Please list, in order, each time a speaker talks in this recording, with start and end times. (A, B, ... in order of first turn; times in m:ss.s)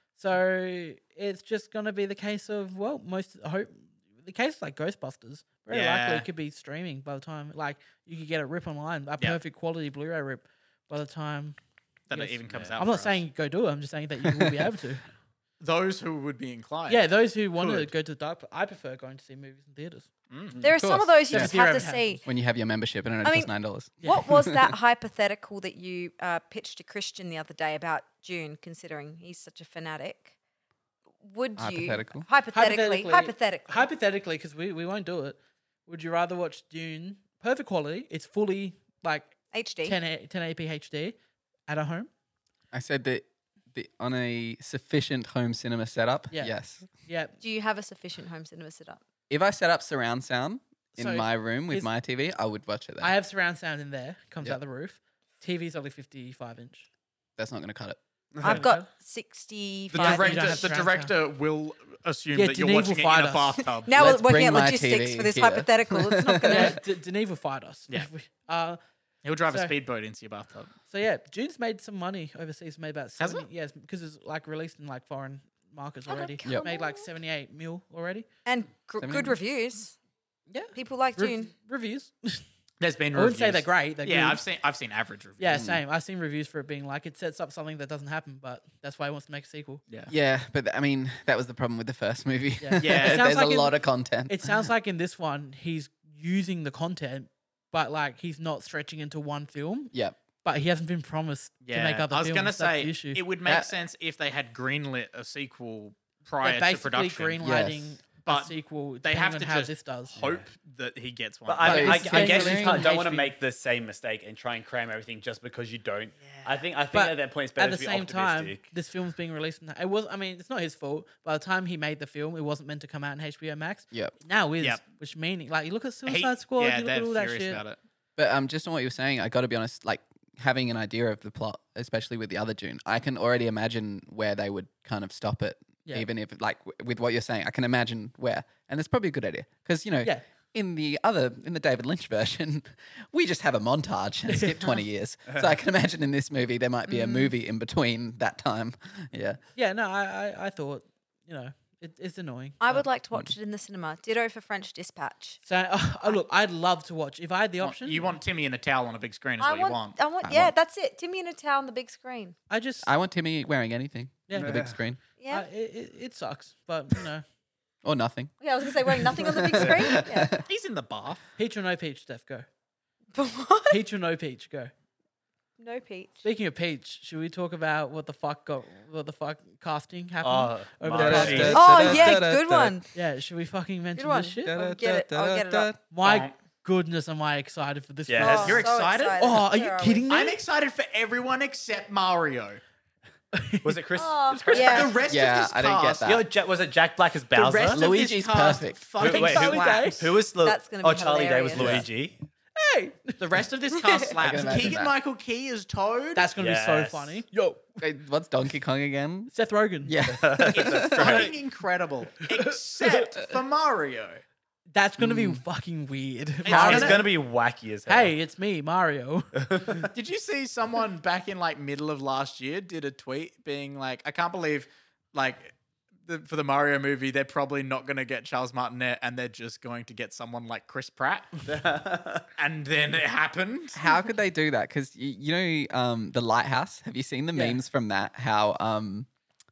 0:00.2-0:11.6 A
0:05.7-0:06.2 B
0:12.1-0:13.2 B
0:12.1-0:15.0 A
0:12.5-0:12.8 C
0:15.6-0:17.9 B
0:16.9-0:20.1 A
0:20.3-0:20.6 B
0:20.6-0:22.2 D
0:20.8-0:21.5 E
0:21.3-0:22.2 A
0:22.2-0:24.7 E
0:23.2-0:30.3 D
0:31.2-0:33.9 D
0:31.6-0:32.3 E
0:32.5-0:42.1 A
0:39.5-0:40.0 D
0:42.7-0:46.9 E
0:46.3-0:47.4 A
0:47.4-0:49.0 D
0:49.3-0:53.1 E
0:51.0-0:51.9 A
0:53.0-0:56.8 A
0:57.4-0:58.0 E
0:58.4-0:58.6 C
0:58.4-1:00.6 D
0:58.4-0:58.9 A
0:59.9-1:03.9 B
0:59.9-1:01.1 A
1:02.3-1:03.6 A
1:03.8-1:06.8 D
1:03.9-1:06.7 E
1:06.4-1:08.8 A
1:09.2-1:10.7 B
1:09.5-1:09.7 A
1:10.9-1:18.3 A
1:13.2-1:13.4 B
1:16.1-1:17.0 D
1:18.4-1:20.0 D
1:19.0-1:19.4 E
1:20.5-1:22.4 A
1:20.7-1:21.5 D
1:22.8-1:25.6 B
1:23.1-1:24.4 A
1:25.4-1:29.8 A
1:25.5-1:25.8 E
1:30.1-1:34.6 E
1:32.6-1:39.9 A
1:32.8-1:33.3 B
1:40.4-1:43.2 A
1:41.6-1:47.4 B
1:43.4-1:43.7 E
1:46.4-1:50.2 A
1:47.4-1:48.0 E
1:48.2-1:52.1 B
1:50.1-1:50.4 C
1:51.5-1:58.6 C
1:51.6-1:52.8 E
1:51.7-1:53.3 A
1:56.9-2:07.6 A
2:06.0-2:07.8 B
2:08.2-2:29.4 E
2:26.9-2:27.3 D
2:29.6-2:32.8 A
2:32.6-2:35.4 D
2:35.4-2:38.2 A
2:37.6-2:40.0 B
2:39.4-2:42.4 D
2:40.2-2:40.5 E
2:42.5-2:42.9 A
2:42.8-2:45.0 E
2:44.3-2:44.5 A
2:44.4-2:44.8 C
2:45.2-2:45.4 D
2:45.3-2:47.2 A
2:47.8-2:50.4 E
2:48.4-2:50.4 D
2:49.6-2:49.9 C
2:50.4-2:51.3 B
2:51.4-2:52.4 A
2:53.1-2:53.8 D
2:53.7-2:54.7 A
2:55.6-2:56.2 D
2:56.2-3:02.0 A
3:00.2-3:02.1 C
3:00.9-3:02.8 E
3:01.4-3:02.8 D
3:02.9-3:04.5 A
3:04.0-3:05.7 D
3:04.4-3:05.8 E
3:05.9-3:10.4 A
3:06.0-3:06.3 B
3:08.1-3:08.6 C
3:08.2-3:10.1 D
3:08.2-3:09.3 B
3:10.1-3:12.6 B
3:13.3-3:14.6 A
3:13.6-3:14.9 C
3:14.0-3:15.0 D
3:14.5-3:16.1 B
3:15.0-3:16.3 E
3:16.0-3:17.8 C
3:17.4-3:17.7 A
3:17.5-3:20.1 B
3:17.7-3:18.8 E
3:19.0-3:20.0 A
3:19.0-3:22.2 C
3:20.4-3:21.9 D
3:21.6-3:21.8 B
3:22.6-3:23.7 A
3:23.2-3:26.3 B
3:24.2-3:24.9 E
3:26.1-3:27.8 A
3:26.4-3:27.2 C
3:27.8-3:31.3 E
3:29.3-3:30.0 A
3:30.0-3:31.3 C
3:30.5-3:34.2 B
3:32.3-3:33.1 A
3:34.7-3:37.1 A
3:35.0-3:35.4 E
3:36.4-3:37.0 B
3:36.5-3:38.1 C
3:37.9-3:39.3 A
3:39.4-3:39.9 C
3:39.9-3:51.4 B
3:51.5-3:52.2 C
3:52.4-3:53.8 B
3:53.7-3:59.1 E
3:57.3-3:57.6 A